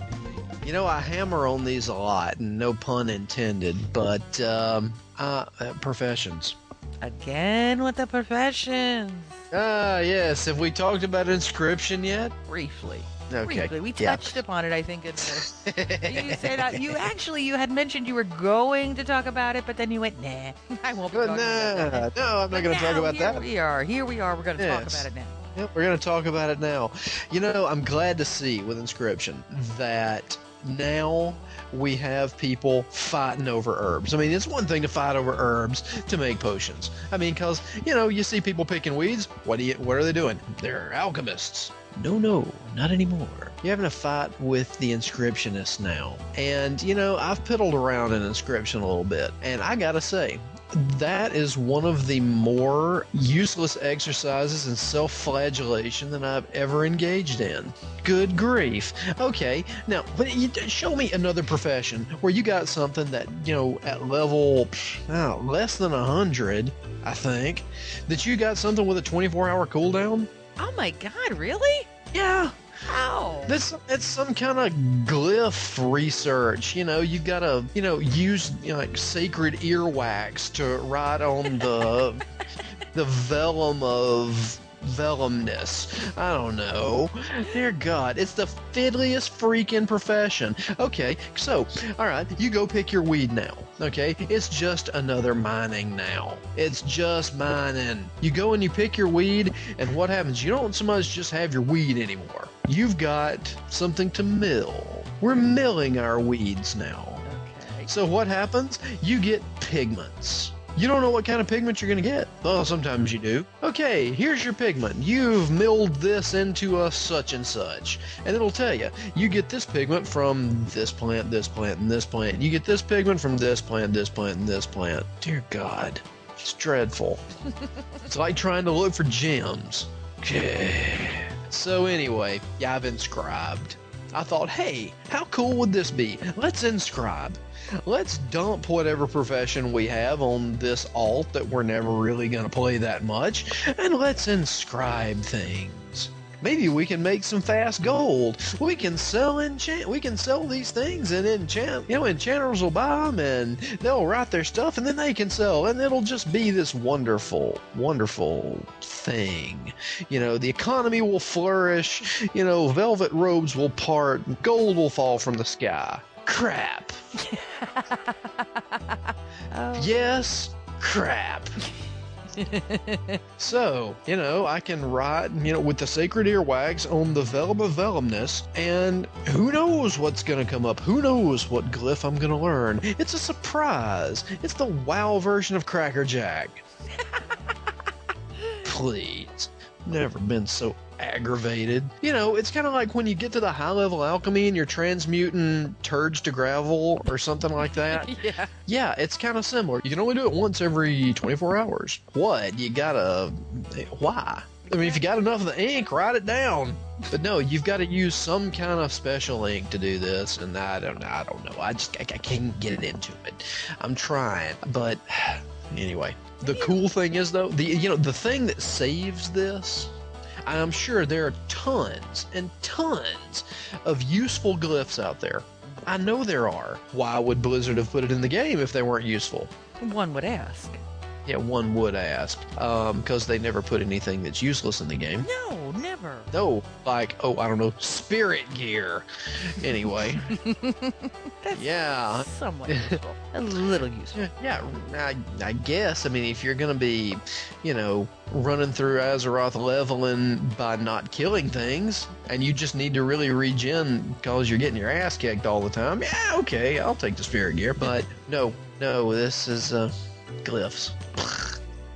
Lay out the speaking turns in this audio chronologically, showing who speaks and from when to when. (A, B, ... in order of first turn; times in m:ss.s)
0:00.6-0:06.6 A
0:07.0-0:09.4 B
0:09.5-0:12.3 A
0:12.5-0:15.5 B
0:13.3-0:14.4 A
0:15.2-0:17.1 A
0:16.0-0:25.4 B
0:21.1-0:23.5 A
0:24.6-1:10.3 A
1:10.6-1:11.9 B
1:12.1-1:12.6 A
1:12.9-1:13.6 B
1:13.5-1:22.3 A
1:22.9-1:47.2 A
1:47.2-1:47.9 B
1:47.9-2:07.2 A
2:08.1-2:47.0 A
2:47.2-2:50.2 B
2:49.8-2:51.6 A
2:52.4-2:53.2 B
2:53.4-3:06.6 A
3:07.1-3:07.3 B
3:08.6-3:18.1 A
3:17.6-3:18.5 B
3:18.7-3:49.5 A
3:24.6-3:25.0 B
3:36.4-3:36.8 B
3:49.8-3:50.8 B
3:51.2-3:55.3 A
3:55.2-3:56.3 B
3:56.3-4:00.3 A
4:00.3-4:04.2 B
4:01.6-4:03.0 A
4:04.1-4:21.6 A